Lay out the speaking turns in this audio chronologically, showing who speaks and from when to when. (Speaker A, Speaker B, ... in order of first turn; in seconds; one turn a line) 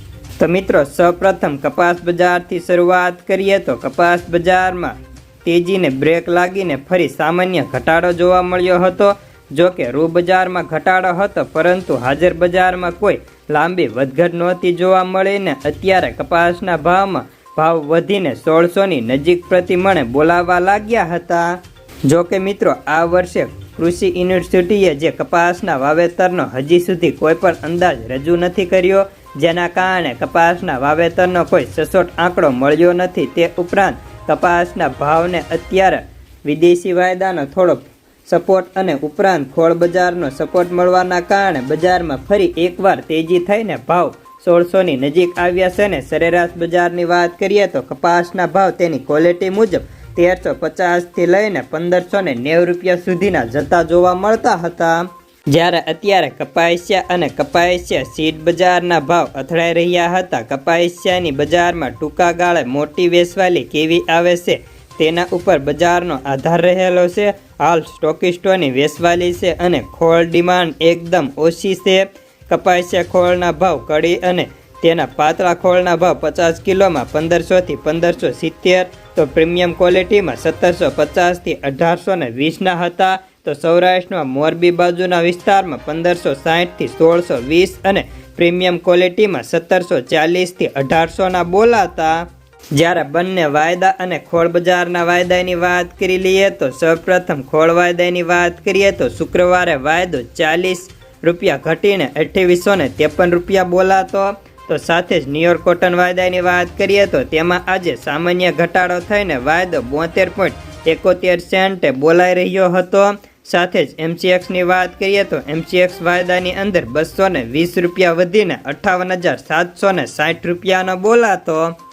Speaker A: 0.4-121.7